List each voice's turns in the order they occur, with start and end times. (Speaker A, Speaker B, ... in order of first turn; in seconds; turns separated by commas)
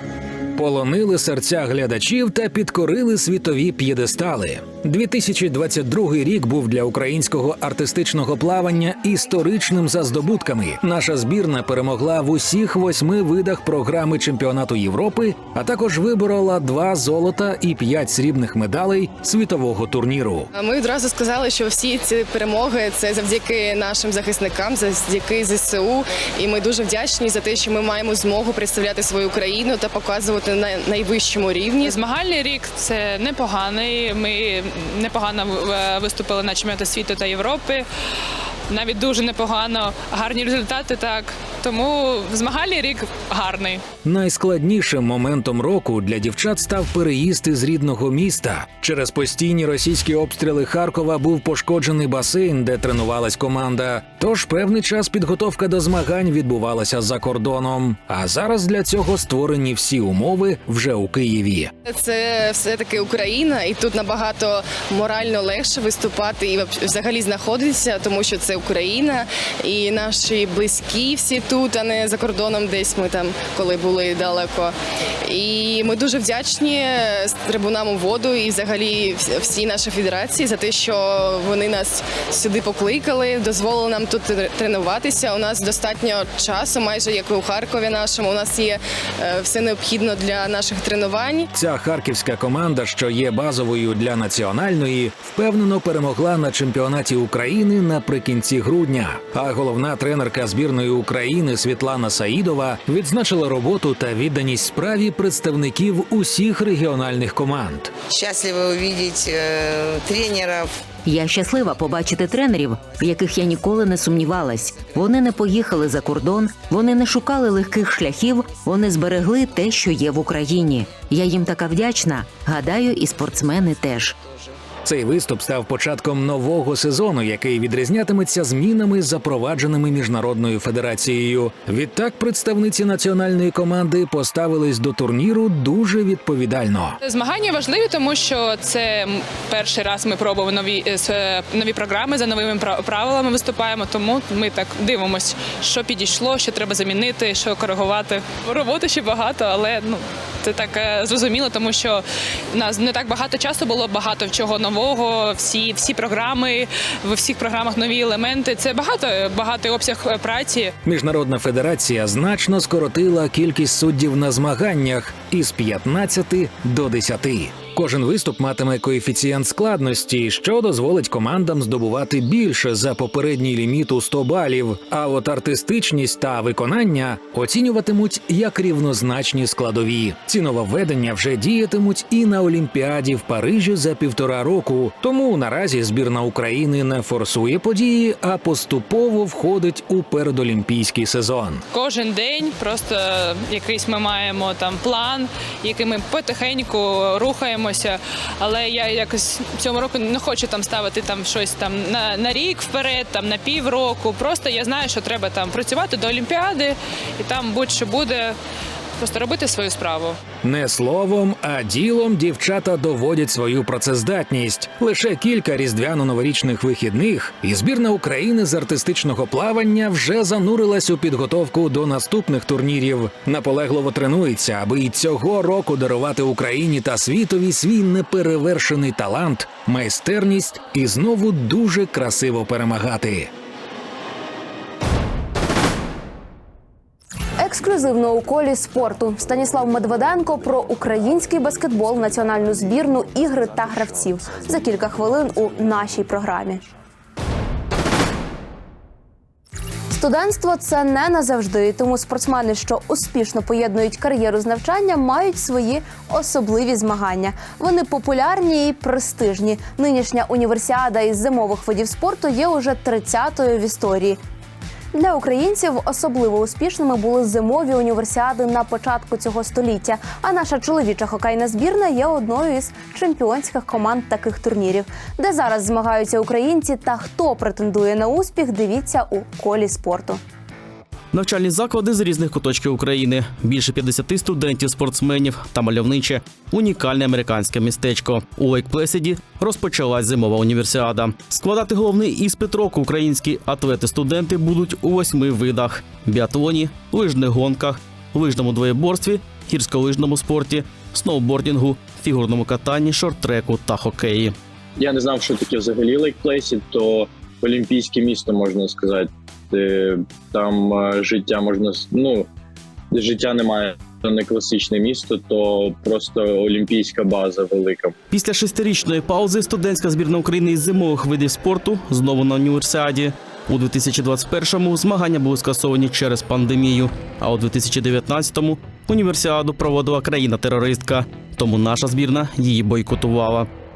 Speaker A: 0.6-20.5, Speaker B: 20.5-31.9, Speaker C: 31.8-37.9, Speaker C: 38.7-43.9, Speaker A: 44.0-61.7, Speaker B: 61.9-91.5, Speaker A: 91.5-107.9, Speaker D: 108.1-110.7, Speaker E: 111.0-124.2, Speaker A: 124.8-136.9, Speaker C: 137.0-160.7, Speaker A: 160.8-191.6, Speaker C: 191.7-208.4, Speaker C: 209.0-210.2, Speaker A: 210.4-233.3, Speaker F: 237.4-246.6, Speaker F: 249.9-264.2, Speaker F: 264.9-280.2, Speaker G: 281.1-304.3, Speaker H: 304.8-312.3, Speaker H: 312.9-317.9, Speaker G: 318.1-333.5